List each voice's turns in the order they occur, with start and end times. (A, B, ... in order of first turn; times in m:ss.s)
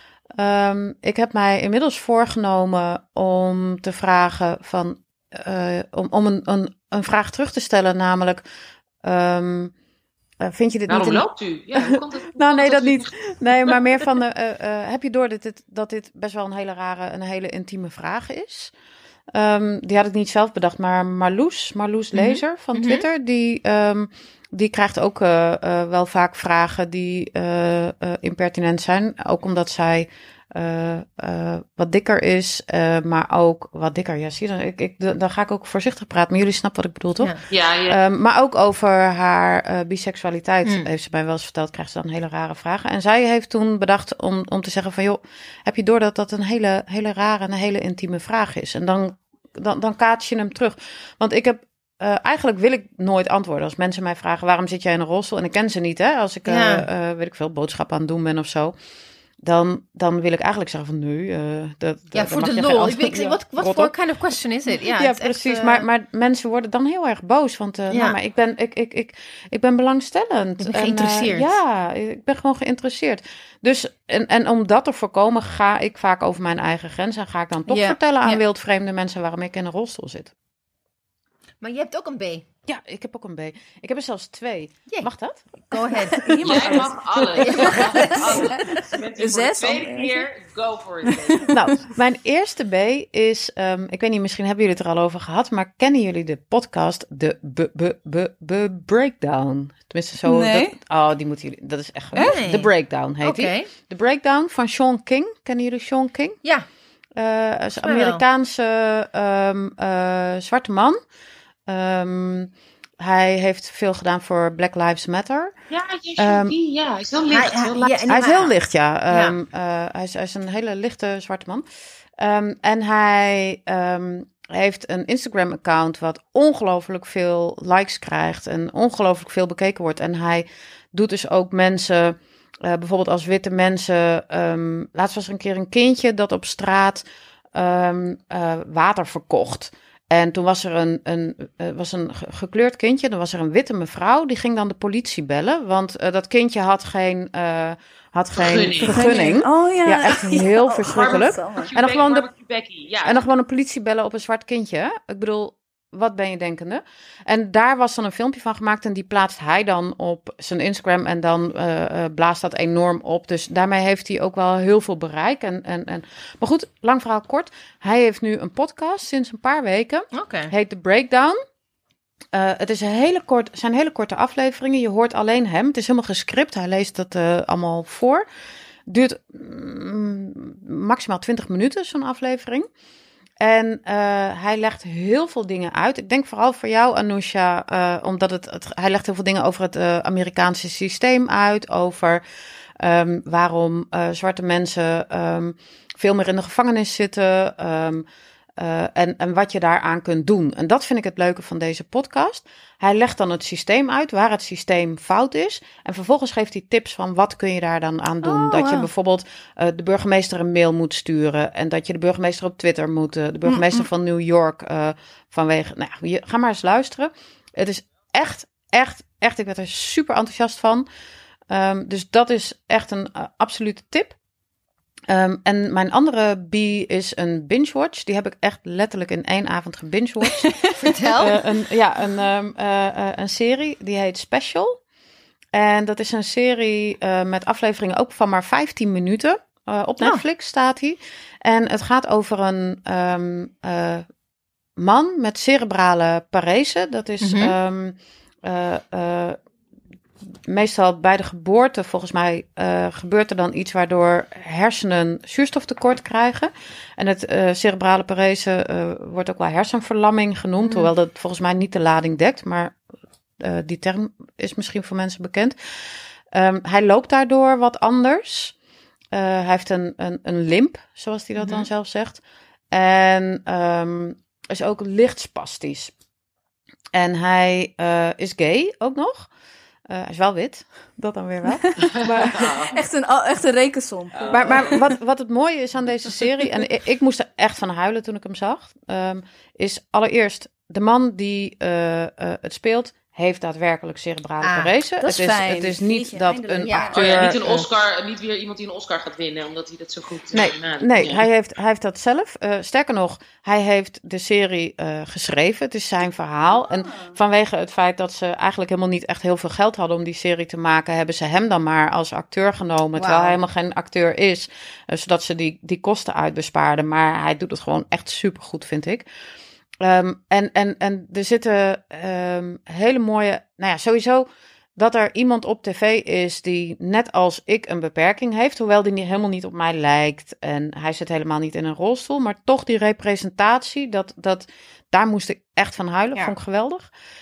0:00.4-0:08.4 A
0:09.0-0:09.7 A
0:10.4-0:18.7 A
0:10.9-0:13.8 B
0:19.3-0:37.4 A
0:22.1-0:23.1 C
0:37.5-0:38.0 B
0:37.9-0:58.7 A
0:40.6-0:40.9 C
0:56.5-0:56.9 C
0:59.4-1:03.9 A
1:02.1-1:05.8 C
1:04.7-1:20.3 A
1:07.9-1:08.2 C
1:10.6-1:11.5 C
1:17.7-1:18.4 C
1:21.6-1:22.5 C
1:22.7-1:25.4 A
1:25.7-1:26.7 C
1:26.1-1:30.3 D
1:26.4-1:27.7 A
1:26.4-1:31.5 B
1:27.4-1:28.5 C
1:31.3-1:31.6 D
1:31.5-1:46.4 A
1:40.2-1:40.8 D
1:42.1-1:42.7 C
1:43.2-1:43.7 C
1:47.2-1:51.0 A
1:47.8-1:48.2 C
1:51.7-1:55.5 A
1:55.7-1:58.5 B
1:56.2-1:56.6 A
1:57.3-1:58.5 C
1:58.1-2:01.6 A
1:59.1-1:59.4 C
2:02.2-2:32.3 A
2:28.4-2:29.2 B
2:28.9-2:31.7 D
2:30.8-2:33.2 B
2:33.0-2:51.4 A
2:50.1-2:50.5 C
2:52.3-2:58.2 A
2:58.9-3:02.7 A
3:03.4-3:12.2 A
3:12.8-3:18.0 A
3:18.6-3:40.9 A
3:28.2-3:28.9 D
3:33.5-3:33.8 D
3:41.5-3:44.2 A
3:45.1-3:54.8 A
3:50.4-3:50.9 D
3:50.8-3:51.4 C
3:55.5-4:04.0 A
4:04.8-4:09.4 A
4:07.2-4:07.5 C
4:10.5-4:22.8 A
4:20.6-4:20.9 C
4:23.4-4:25.6 A
4:26.3-4:28.5 A
4:29.1-4:35.9 A
4:31.4-4:31.7 C
4:36.9-4:39.3 A
4:39.9-4:42.6 A
4:41.6-4:44.2 D
4:41.9-4:42.8 B
4:44.1-4:44.8 B
4:44.3-4:57.6 A
4:54.4-4:54.7 C
4:55.0-4:57.5 D
4:56.6-4:57.0 C
4:56.9-5:01.3 B
5:00.3-5:19.1 A
5:13.0-5:13.4 C
5:19.8-5:36.9 A